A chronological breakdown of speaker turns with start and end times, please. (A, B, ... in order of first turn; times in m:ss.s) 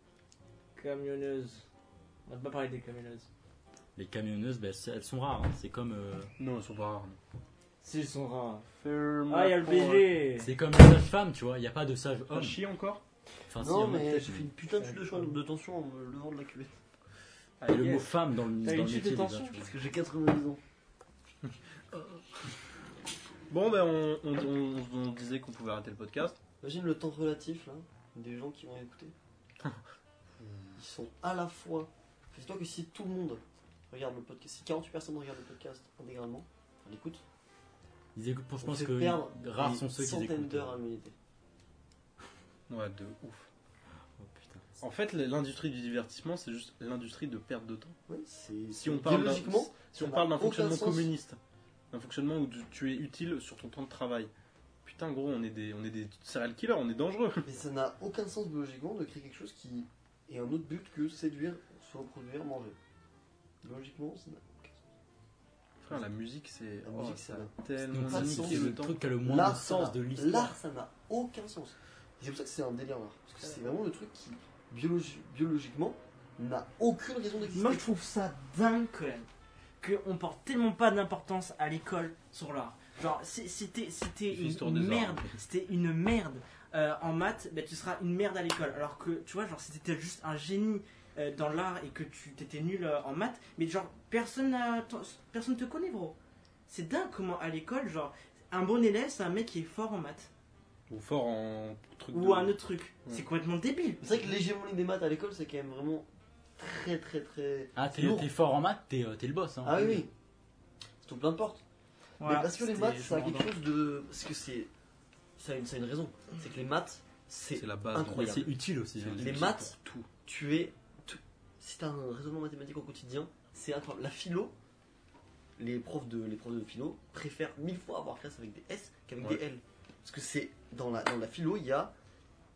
0:00.8-0:01.6 A
0:02.2-0:03.3 A
0:04.0-0:06.3 B
0:06.4-0:07.2 C
0:07.8-0:08.7 A
0:08.8-0:10.1 C
0:09.3-0:10.5 A
0:10.4-0:12.6 B
0:12.3-0:13.0 C
0:13.5-0:14.5 B
0:13.6-0:16.8 D
0:14.8-0:15.1 A
0:17.6-0:18.1 C
0:17.7-0:19.7 B
0:18.6-0:19.6 A
0:19.6-0:20.6 D
0:21.4-0:22.2 C
0:23.5-0:26.4 C
0:26.6-0:29.1 D
0:30.4-0:30.7 C
0:30.8-0:37.2 D
0:38.1-0:40.8 B
0:38.6-0:41.1 D
0:42.7-0:43.5 C
0:44.2-0:44.7 B
0:44.8-0:48.0 C
0:48.1-0:51.1 D
0:48.7-0:51.4 C
0:51.9-0:54.3 C
0:54.8-0:57.5 C
0:57.4-1:02.8 D
1:03.6-1:04.8 D
1:05.8-1:09.0 C
1:06.8-1:17.9 D
1:07.9-1:10.6 B
1:17.5-1:19.3 A
1:19.8-1:36.2 A
1:24.3-1:25.3 C
1:36.7-1:40.3 A
1:40.9-1:42.6 C
1:42.1-1:44.0 A
1:44.0-1:48.3 D
1:47.8-1:50.0 B
1:49.6-1:50.1 D
1:51.0-1:51.6 D
1:52.2-1:53.5 A
1:52.2-1:54.7 D
1:55.4-1:58.6 D
1:57.5-1:59.5 C
1:58.0-1:59.7 B
1:59.1-2:04.5 D
2:05.6-2:11.9 D